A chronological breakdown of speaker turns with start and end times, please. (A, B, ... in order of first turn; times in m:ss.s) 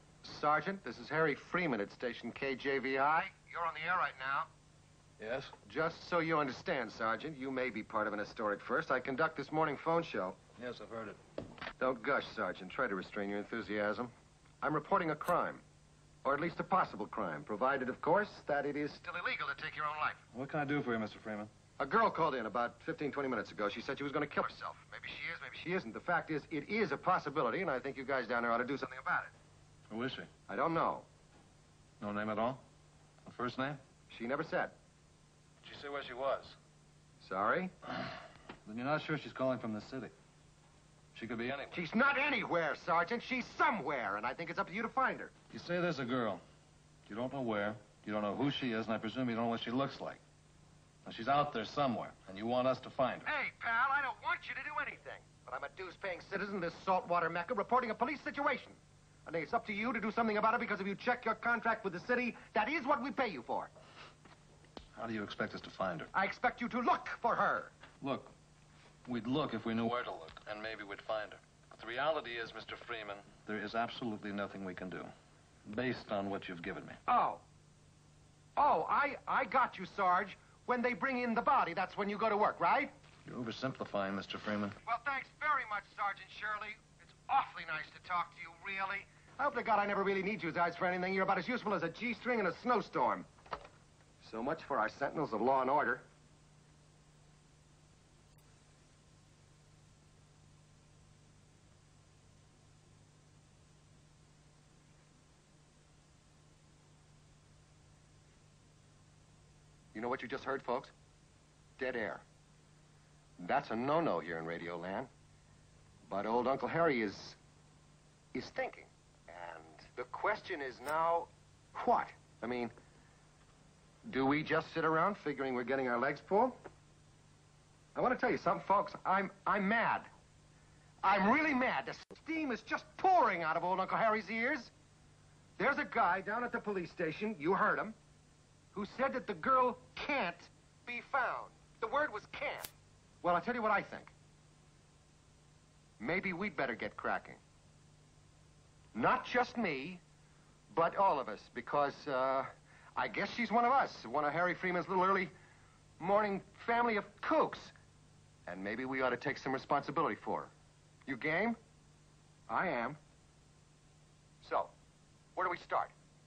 0:00.2-0:04.5 A
0:05.2-0:05.5 B
0:05.6-0:10.4 A
0:10.6-0:11.2 B
0:11.8-0:15.6 A
0:16.2-0:20.2 A
0:20.3-0:21.5 B
0:21.8-0:29.3 A
0:29.9-0:30.3 B
0:30.5-0:31.1 A
0:32.0-0:32.6 B
0:33.2-0:33.8 B
0:34.1-0:34.7 A
0:35.6-0:36.6 B
0:37.2-0:37.7 A
0:38.6-0:40.1 B
0:41.1-0:41.8 B
0:41.7-0:45.3 A
0:45.5-0:46.4 B
0:47.1-0:50.2 B
0:51.0-0:53.3 B
0:53.2-1:03.7 A
1:05.0-1:06.1 B
1:06.1-1:07.7 A
1:08.0-1:08.3 B
1:09.1-1:15.1 B
1:15.7-1:17.0 B
1:17.1-1:17.4 A
1:18.6-1:22.9 A
1:23.2-1:24.8 B
1:24.8-1:33.3 A
1:34.2-1:36.0 A
1:49.9-1:50.9 A
1:51.8-1:52.2 A
1:53.4-1:55.1 A
1:56.1-1:57.4 A
1:58.3-2:02.7 A
2:04.1-2:06.5 A
2:07.9-2:10.1 A
2:11.0-2:14.7 A
2:15.6-2:18.0 A
2:18.7-2:22.7 A
2:23.2-2:24.1 A
2:26.0-2:27.4 A
2:28.9-2:30.0 A
2:30.7-2:35.3 A
2:36.0-2:37.7 A
2:38.4-2:40.5 A
2:41.0-2:41.6 A
2:42.5-2:43.0 A
2:44.4-2:44.7 A
2:45.4-2:45.9 A